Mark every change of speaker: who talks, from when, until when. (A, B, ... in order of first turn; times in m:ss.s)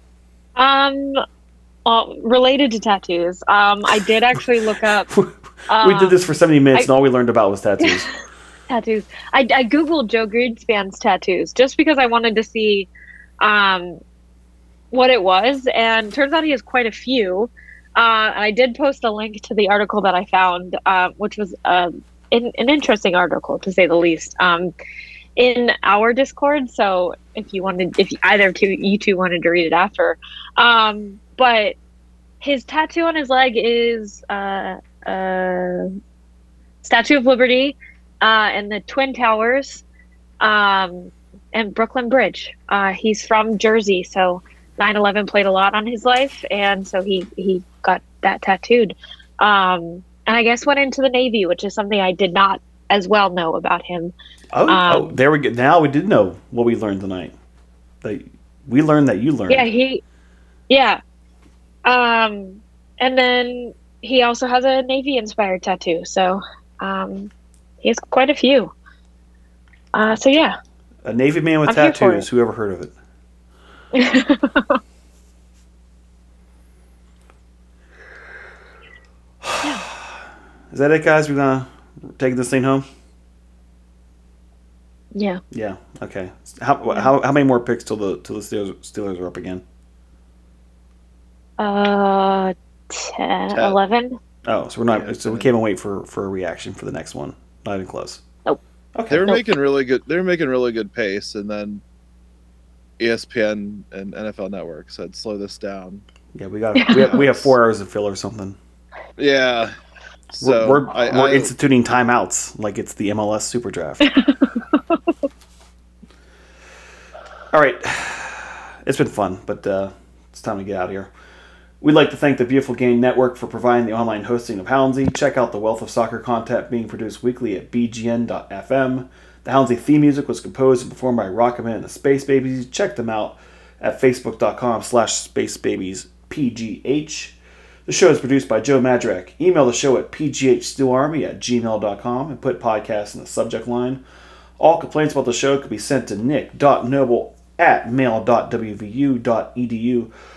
0:00.6-0:01.2 A
0:01.8-0:05.1 A
0:05.1-0:08.1 B
0:05.7-0:06.2 A
0:07.8-0:08.1 A
0:08.7-0:12.9 A
0:13.4-0:14.0 A
0:14.9-0:24.7 A
0:25.4-0:31.8 A
0:32.4-0:35.9 A
0:36.8-0:39.8 A
0:40.4-0:54.1 A
0:54.5-0:57.3 B
0:54.7-0:55.1 A
0:58.0-0:59.7 B
0:59.5-1:00.0 A
1:00.7-1:01.0 A
1:01.8-1:07.3 A
1:07.8-1:08.7 A
1:09.9-1:10.5 A
1:11.0-1:12.9 B
1:11.6-1:12.2 A
1:13.9-1:14.8 A
1:19.4-1:20.2 B
1:20.7-1:22.8 B
1:25.1-1:25.4 A
1:25.5-1:29.6 B
1:31.6-1:34.2 A
1:33.5-1:33.8 C
1:34.5-1:38.2 B
1:34.9-1:35.5 C
1:38.9-1:39.2 B
1:39.1-1:41.8 C
1:43.0-1:46.0 C
1:46.3-1:48.6 B
1:46.8-1:47.1 A
1:46.9-1:47.5 C
1:49.2-1:49.7 C
1:50.3-1:51.5 C
1:50.4-1:54.1 B
1:54.0-1:55.0 A
1:57.5-2:01.1 B
2:01.8-2:24.0 B
2:24.6-2:30.1 B